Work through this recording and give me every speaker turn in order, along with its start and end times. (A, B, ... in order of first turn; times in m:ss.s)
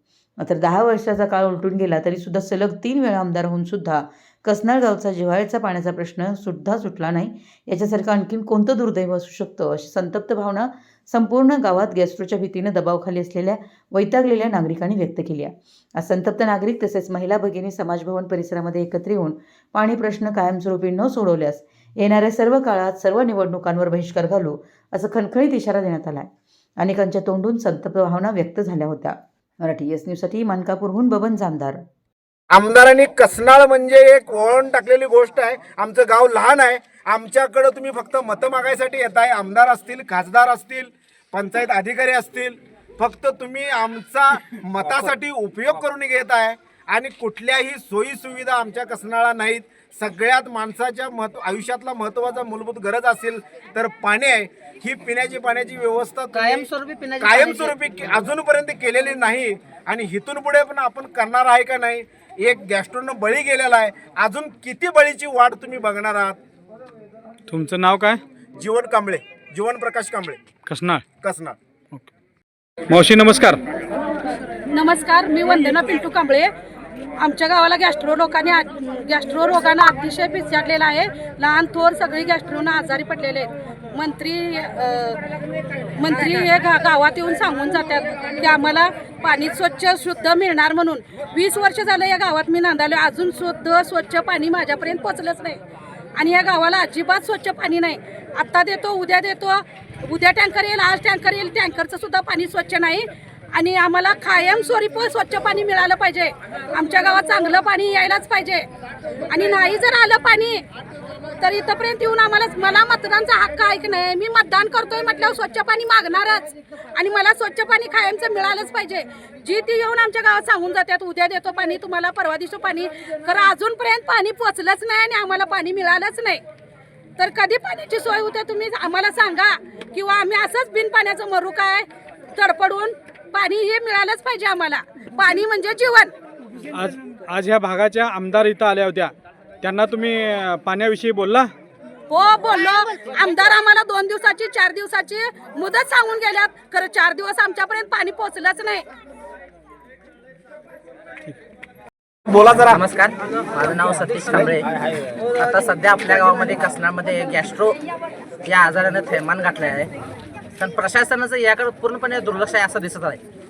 0:00.4-0:31.8 A
0:32.5-0:56.7 B
0:56.3-0:57.8 C
0:57.2-1:06.4 B
1:07.5-1:08.2 D
1:08.6-1:10.4 B
1:10.6-1:11.0 D
1:11.2-1:11.6 B
1:12.9-1:13.6 D
1:14.5-1:16.5 E
1:17.2-1:25.3 E
1:25.9-1:35.6 E
1:36.1-1:48.7 E
1:49.3-1:50.6 E
1:51.4-2:06.4 E
2:07.2-2:16.1 E
2:16.7-2:21.5 D
2:22.1-2:28.8 E
2:32.3-2:32.8 B
2:32.5-2:37.8 C
2:38.4-2:39.9 C
2:40.6-2:43.2 C